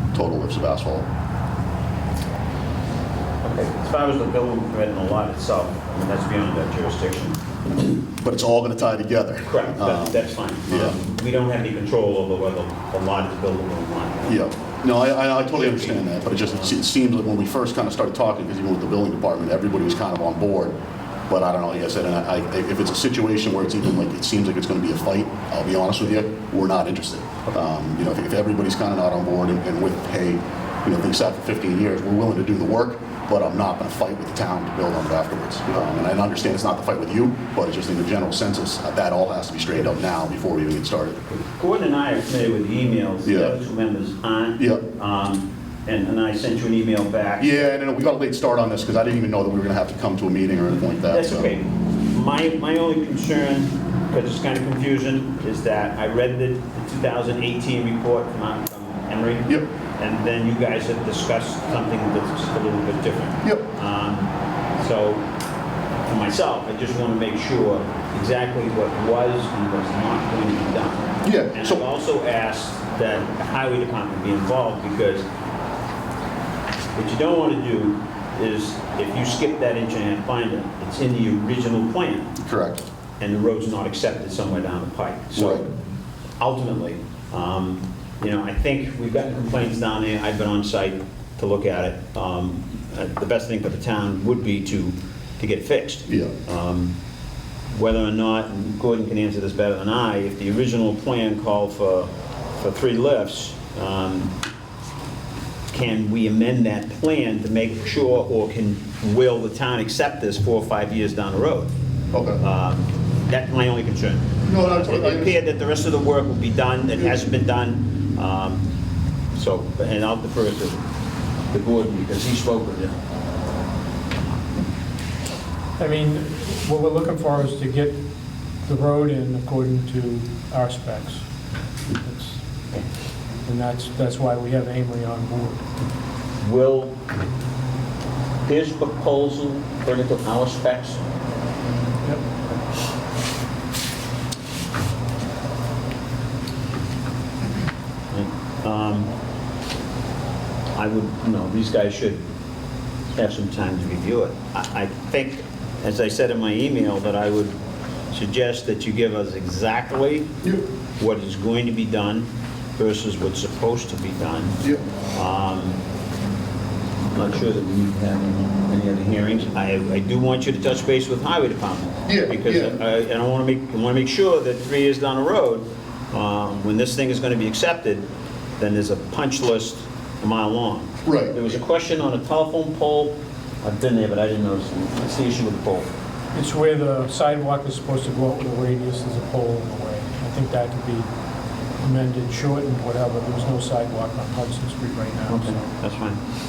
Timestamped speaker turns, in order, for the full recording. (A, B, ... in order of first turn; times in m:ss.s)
0:00.1-0:01.1 A
0:03.4-0:07.4 B
0:07.9-0:11.0 A
0:09.4-0:14.4 B
0:14.2-0:20.8 A
0:15.4-0:16.7 B
0:21.3-0:41.4 A
0:41.6-0:47.7 B
0:43.2-0:43.5 A
0:44.6-0:44.8 A
0:47.4-0:51.5 A
0:51.0-1:05.2 B
1:06.1-1:15.2 B
1:11.2-1:11.8 A
1:16.9-1:22.3 B
1:22.4-1:22.8 A
1:23.2-1:25.6 B
1:25.3-1:25.7 A
1:26.4-1:36.9 B
1:36.1-1:36.3 A
1:37.7-1:44.3 B
1:45.7-1:51.7 B
1:52.1-1:52.4 A
1:52.4-1:58.6 B
1:54.4-1:55.4 A
1:59.3-2:00.8 B
2:01.5-2:02.9 B
2:05.8-2:08.0 C
2:08.6-2:11.2 C
2:11.9-2:12.4 C
2:13.4-2:15.6 C
2:16.4-2:17.0 B
2:18.4-2:21.0 B
2:28.1-2:29.1 B
2:30.7-2:32.2 B
2:33.2-2:37.5 B
2:38.1-2:40.3 B
2:41.0-2:44.6 B
2:45.1-2:45.8 B
2:47.1-2:58.0 B
2:52.0-2:52.8 A
2:58.6-3:05.9 B
3:01.0-3:01.3 A
3:06.3-3:11.1 C
3:11.8-3:15.7 C
3:15.3-3:16.2 B